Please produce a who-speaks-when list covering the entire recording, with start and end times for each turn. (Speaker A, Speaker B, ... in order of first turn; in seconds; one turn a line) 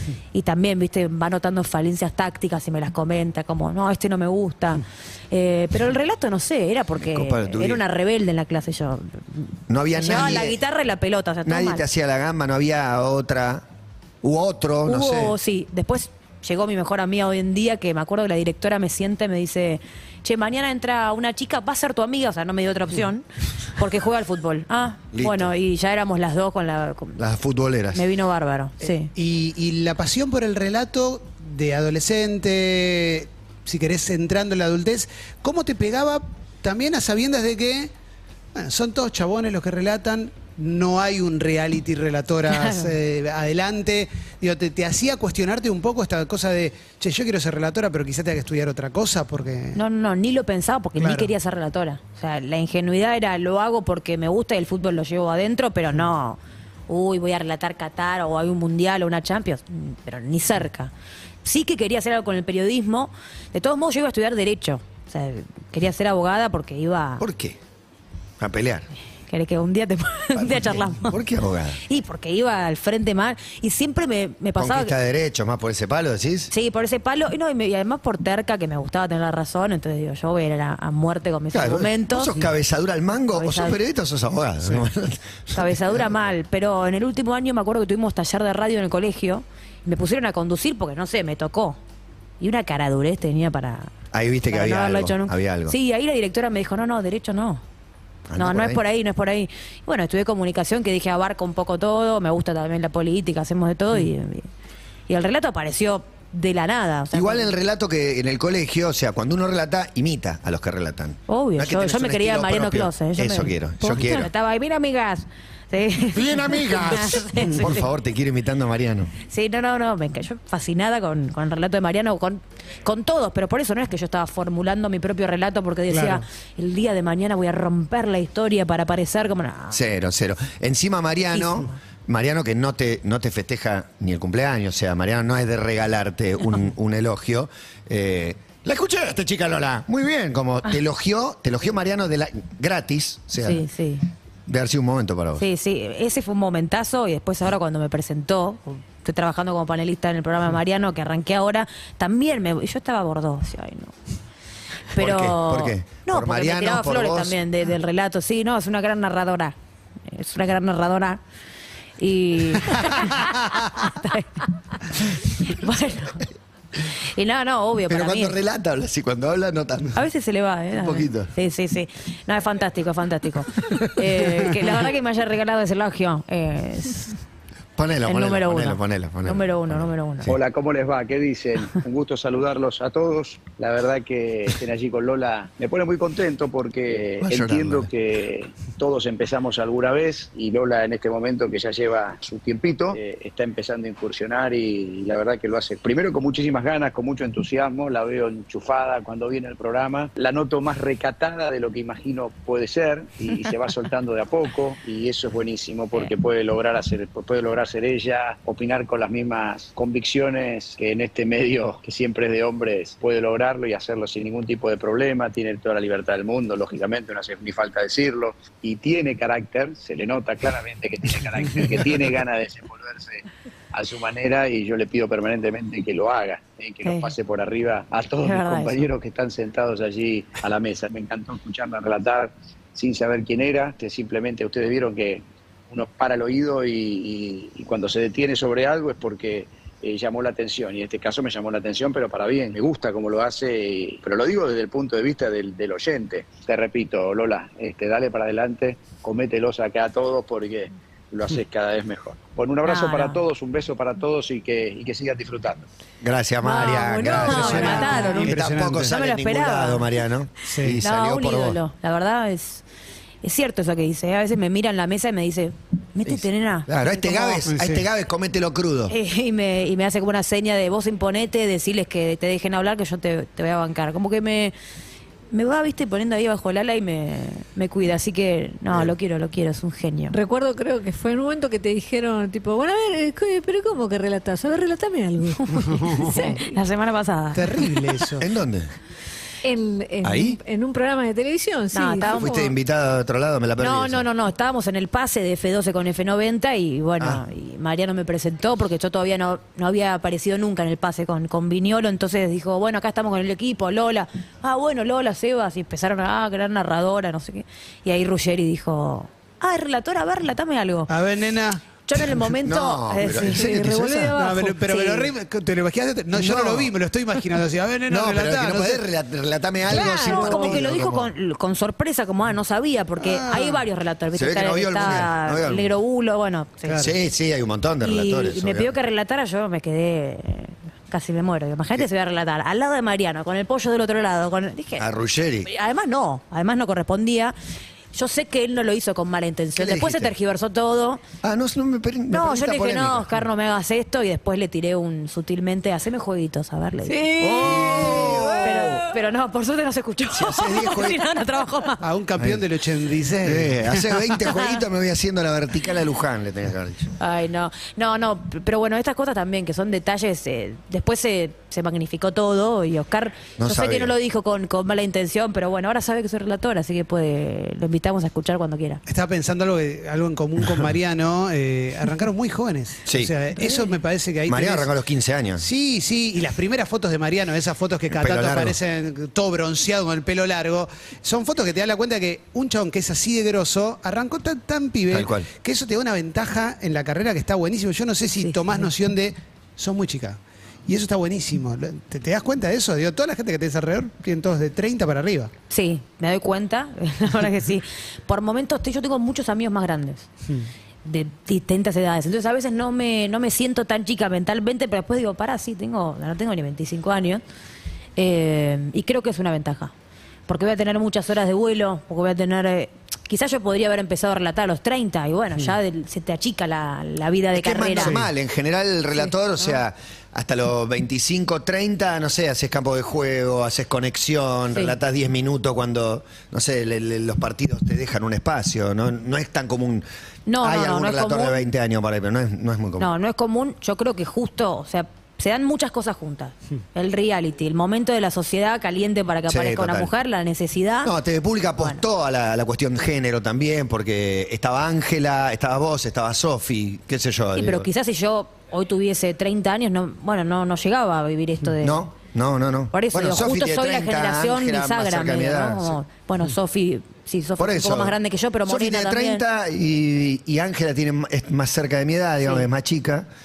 Speaker A: 0.3-11.8
Speaker B: 7.0-7.8
Speaker B: 9.7-10.6
Speaker B: 11.4-13.7
Speaker B: 14.2-15.3
Speaker A: 14.9-27.2
Speaker B: 25.1-25.5
Speaker B: 27.2-28.0
Speaker A: 27.9-29.1
Speaker C: 29.1-37.9
Speaker C: 38.5-49.8
Speaker A: 49.8-60.9
Speaker C: 51.0-51.3
Speaker A: 61.4-67.2
Speaker B: 67.2-67.6
Speaker B: 68.4-68.9
Speaker A: 69.3-71.2
Speaker B: 70.3-71.8
Speaker A: 71.8-74.9
Speaker B: 74.6-76.5
Speaker A: 76.5-82.4
Speaker B: 81.5-86.1
Speaker A: 83.3-83.8
Speaker A: 85.5-91.8
Speaker A: 92.4-93.9
Speaker B: 94.1-95.8
Speaker A: 94.5-97.6
Speaker B: 98.3-98.8
Speaker A: 98.4-104.5
Speaker A: 105.1-107.5
Speaker B: 107.1-114.3
Speaker A: 111.3-117.9
Speaker B: 116.1-119.1
Speaker A: 119.3-129.8
Speaker C: 125.9-126.2
Speaker B: 129.7-143.6
Speaker A: 131.3-131.7
Speaker A: 143.4-144.1
Speaker B: 144.5-145.5
Speaker A: 145.4-153.9
Speaker A: 154.9-159.6
Speaker B: 154.9-157.4
Speaker A: 160.1-161.2
Speaker A: 162.0-166.3
Speaker A: 166.9-168.4
Speaker B: 167.9-170.0
Speaker A: 169.9-177.2
Speaker B: 170.7-171.3
Speaker B: 177.8-180.3
Speaker A: 178.1-180.3
Speaker D: 180.3-255.7
Speaker B: 187.2-187.9
Speaker A: 226.8-227.1
Speaker A: 228.2-228.9
Speaker A: 252.7-253.2
Speaker B: 256.0-261.6
Speaker A: 256.4-258.4
Speaker E: 256.6-258.1
Speaker C: 257.0-258.9
Speaker A: 258.9-259.9
Speaker C: 260.4-260.8
Speaker A: 260.8-262.6
Speaker A: 263.2-267.5
Speaker B: 266.1-268.9
Speaker C: 267.5-267.9
Speaker A: 268.9-274.5
Speaker A: 275.3-280.2
Speaker E: 280.1-286.5
Speaker A: 285.5-287.8
Speaker C: 287.4-288.3
Speaker B: 288.2-288.7
Speaker E: 289.4-292.5
Speaker B: 290.0-290.4
Speaker A: 291.7-292.4
Speaker B: 292.1-294.1
Speaker A: 293.6-310.9
Speaker C: 310.9-311.6
Speaker A: 311.9-315.1
Speaker B: 312.1-314.2
Speaker E: 313.4-314.4
Speaker C: 314.2-318.8
Speaker B: 316.1-316.7
Speaker B: 317.9-321.1
Speaker E: 319.7-320.6
Speaker A: 320.0-326.8
Speaker C: 323.0-323.6
Speaker B: 324.1-325.7
Speaker C: 326.7-326.9
Speaker B: 326.8-328.7
Speaker A: 327.8-334.9
Speaker B: 334.8-335.5
Speaker A: 335.4-337.4
Speaker A: 337.9-341.0
Speaker B: 339.6-340.1
Speaker B: 341.2-343.1
Speaker A: 342.1-347.9
Speaker E: 346.9-348.2
Speaker B: 347.2-348.9
Speaker A: 348.4-351.9
Speaker B: 350.1-351.0
Speaker C: 351.8-354.2
Speaker B: 352.2-352.4
Speaker B: 353.2-356.9
Speaker A: 357.0-368.8
Speaker B: 363.4-363.9
Speaker C: 368.9-374.7
Speaker B: 372.9-373.7
Speaker B: 374.3-375.5
Speaker C: 375.4-395.3
Speaker B: 377.9-378.6
Speaker B: 384.9-385.3
Speaker A: 395.5-400.1
Speaker A: 400.8-407.2
Speaker A: 408.0-409.7
Speaker A: 410.3-418.0
Speaker B: 417.3-429.9
Speaker C: 417.8-418.1
Speaker A: 430.3-431.5
Speaker B: 430.4-432.9
Speaker A: 432.8-440.9
Speaker B: 439.3-439.9
Speaker B: 440.8-447.7
Speaker A: 447.4-451.9
Speaker B: 451.6-455.8
Speaker A: 452.7-459.2
Speaker B: 457.4-463.1